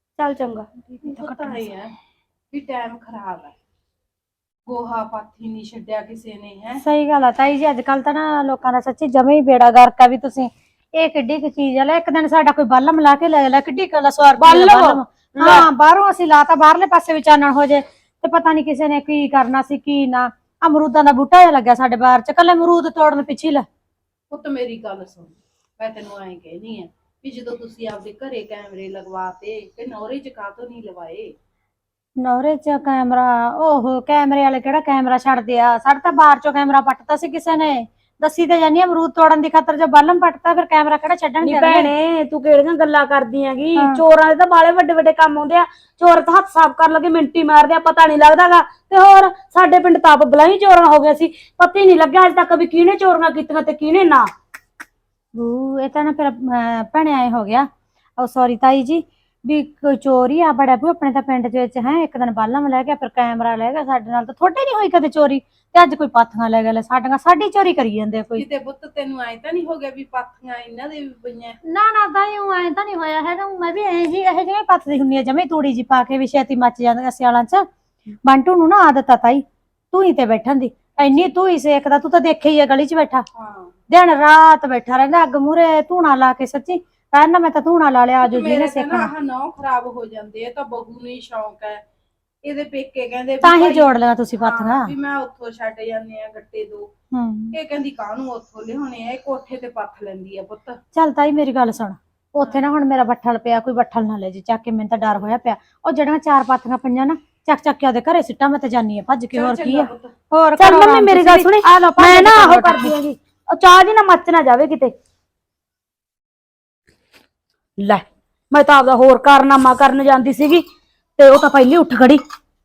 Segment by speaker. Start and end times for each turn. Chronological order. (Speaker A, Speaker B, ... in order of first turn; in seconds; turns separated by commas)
Speaker A: 0.2-0.7, Speaker B: 0.9-1.6, Speaker C: 1.0-1.9, Speaker C: 2.5-3.5, Speaker C: 4.7-6.8, Speaker B: 6.8-23.6, Speaker A: 14.4-15.7, Speaker C: 24.3-31.3, Speaker B: 32.2-41.9, Speaker A: 41.4-54.3, Speaker B: 43.8-44.0, Speaker B: 55.4-57.7, Speaker B: 58.2-68.4, Speaker C: 68.4-71.6, Speaker B: 71.7-77.6, Speaker B: 78.2-83.2, Speaker C: 81.0-81.3, Speaker C: 83.4-83.7, Speaker B: 83.9-89.1, Speaker C: 88.2-91.8, Speaker C: 92.4-96.9, Speaker B: 93.4-94.9, Speaker B: 97.1-97.5, Speaker C: 97.5-100.8, Speaker B: 100.9-112.9, Speaker C: 109.3-110.1, Speaker A: 110.6-114.9, Speaker A: 117.8-120.6, Speaker A: 121.2-122.2